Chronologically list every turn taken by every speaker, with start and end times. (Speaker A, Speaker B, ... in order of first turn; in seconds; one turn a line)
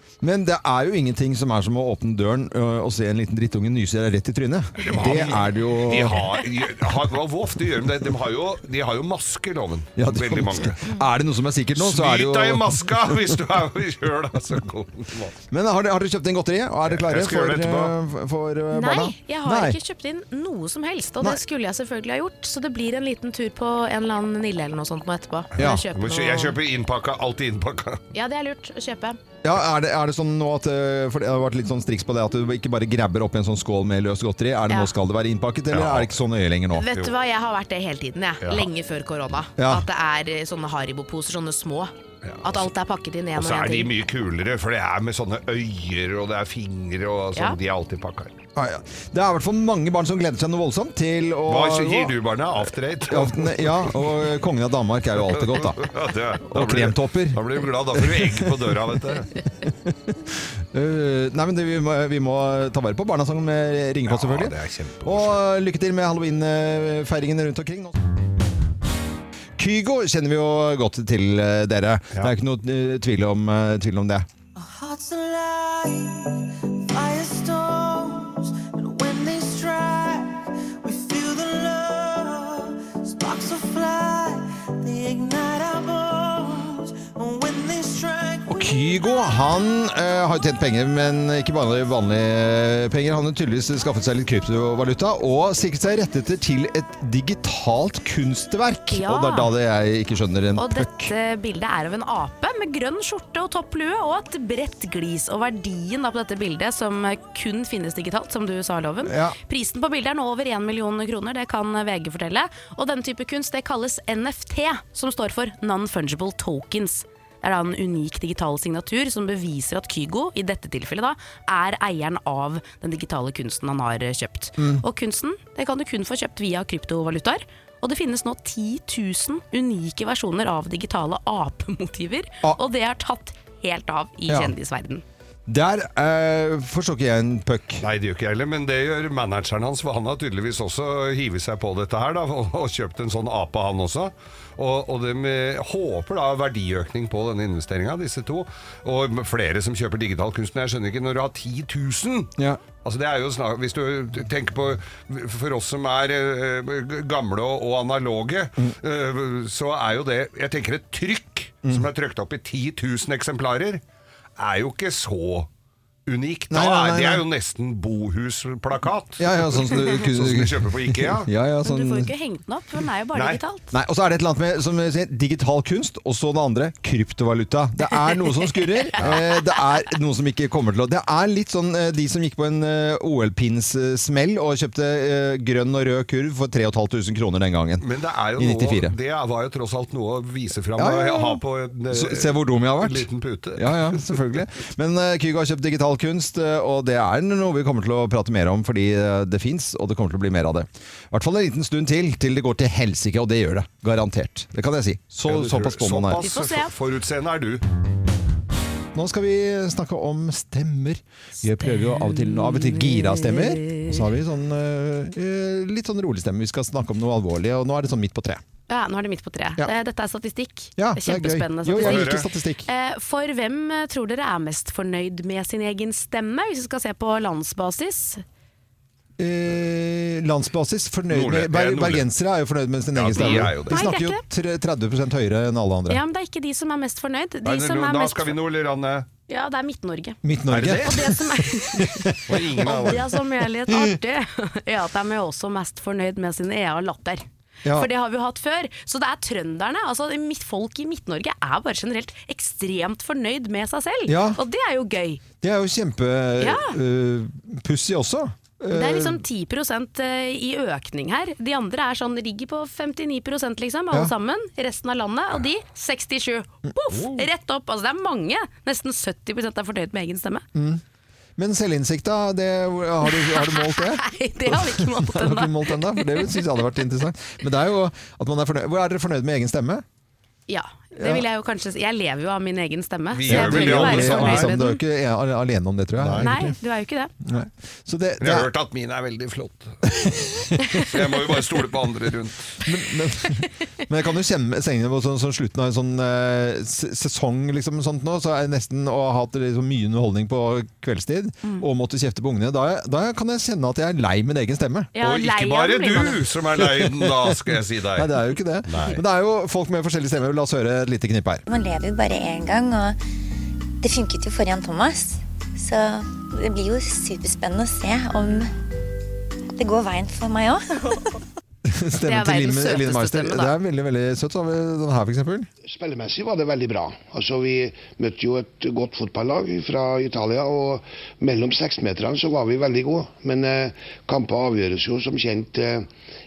Speaker A: 0.2-6.2
Speaker B: 4.8-10.9
Speaker A: 10.0-13.2
Speaker B: 11.8-15.4
Speaker A: 15.5-19.8
Speaker B: 16.9-18.0
Speaker C: 18.7-26.6
Speaker A: 25.6-25.8
Speaker B: 25.6-28.0
Speaker C: 28.1-29.2
Speaker A: 29.4-36.9
Speaker B: 35.7-36.2
Speaker C: 36.8-43.9
Speaker B: 38.4-38.7
Speaker A: 39.6-39.9
Speaker B: 42.2-42.7
Speaker B: 43.4-48.4
Speaker A: 48.5-52.2
Speaker B: 51.5-54.0
Speaker A: 53.1-55.9
Speaker B: 55.3-59.3
Speaker A: 56.4-58.7
Speaker A: 59.6-68.0
Speaker B: 64.1-65.4
Speaker A: 69.6-74.3
Speaker D: 74.6-76.1
Speaker D: 76.9-80.3
Speaker D: 80.8-88.7
Speaker A: 88.5-101.1
Speaker C: 98.9-99.5
Speaker C: 100.6-135.0
Speaker A: 109.0-109.4
Speaker A: 135.5-137.8
Speaker B: 137.8-163.8
Speaker B: 164.4-165.5
Speaker B: 166.1-171.3
Speaker A: 166.5-167.3
Speaker A: 169.2-172.1
Speaker C: 171.7-173.7
Speaker B: 173.1-173.4
Speaker A: 173.7-187.8
Speaker B: 187.8-194.2
Speaker A: 188.4-188.9
Speaker A: 190.8-206.2
Speaker B: 205.2-207.6
Speaker C: 206.2-206.7
Speaker A: 208.9-218.4
Speaker C: 211.7-214.0
Speaker C: 218.7-228.2
Speaker A: 220.8-222.7
Speaker B: 221.8-222.3
Speaker A: 229.2-236.0
Speaker B: 231.1-232.1
Speaker B: 232.9-233.8
Speaker C: 233.2-234.2
Speaker C: 235.9-238.4
Speaker B: 237.4-239.1
Speaker C: 239.3-240.2
Speaker A: 240.2-240.9
Speaker B: 240.5-241.3
Speaker C: 240.8-255.2
Speaker A: 241.7-242.9
Speaker B: 242.3-243.1
Speaker A: 254.1-254.4
Speaker A: 255.4-259.2
Speaker C: 256.4-256.8
Speaker C: 258.7-270.4
Speaker A: 266.7-267.2
Speaker A: 270.6-270.8
Speaker A: 271.4-279.8
Speaker C: 273.1-276.6
Speaker C: 280.5-284.8
Speaker A: 281.0-281.2
Speaker B: 283.1-284.6
Speaker A: 283.3-286.5
Speaker B: 286.0-286.4
Speaker C: 286.2-287.1
Speaker A: 287.2-288.5
Speaker B: 288.2-289.8
Speaker A: 289.9-290.9
Speaker B: 290.8-292.5
Speaker A: 292.6-304.9
Speaker C: 304.9-306.3
Speaker B: 305.0-309.0
Speaker A: 306.8-307.3
Speaker A: 307.9-311.4
Speaker E: 311.5-313.0
Speaker E: 313.8-318.5
Speaker E: 319.6-321.0
Speaker A: 321.7-325.5
Speaker C: 322.1-323.5
Speaker F: 325.6-335.9